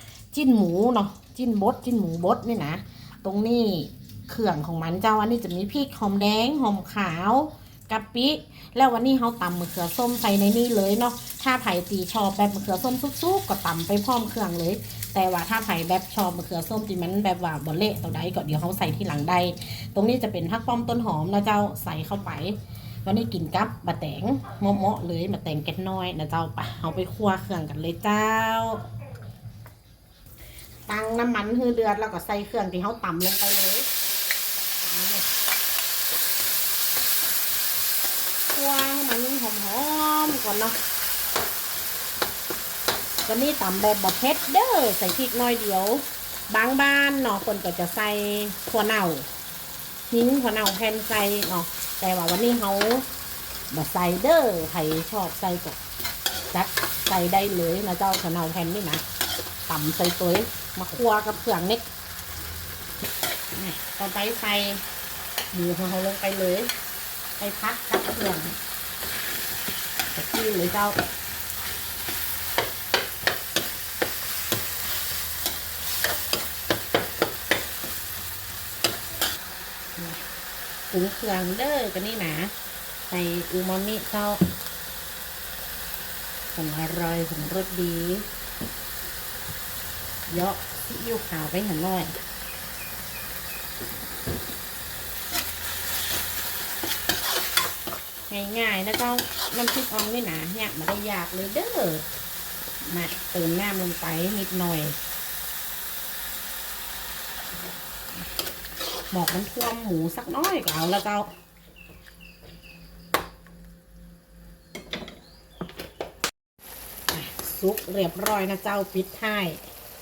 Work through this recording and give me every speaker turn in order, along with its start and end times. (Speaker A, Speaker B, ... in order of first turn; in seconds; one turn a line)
Speaker A: 0.3-28.8
Speaker A: 30.9-33.9
Speaker A: 34.8-35.3
Speaker A: 38.5-40.8
Speaker A: 43.3-49.3
Speaker A: 50.1-53.1
Speaker A: 53.7-55.8
Speaker A: 56.5-59.0
Speaker A: 59.7-61.9
Speaker A: 63.5-64.8
Speaker A: 65.5-66.7
Speaker A: 67.4-68.6
Speaker A: 70.1-71.0
Speaker A: 80.0-80.2
Speaker A: 80.9-82.5
Speaker A: 83.1-84.4
Speaker A: 86.5-88.3
Speaker A: 90.3-92.2
Speaker A: 98.3-102.1
Speaker A: 102.8-105.0
Speaker A: 109.1-111.3
Speaker A: 117.1-119.6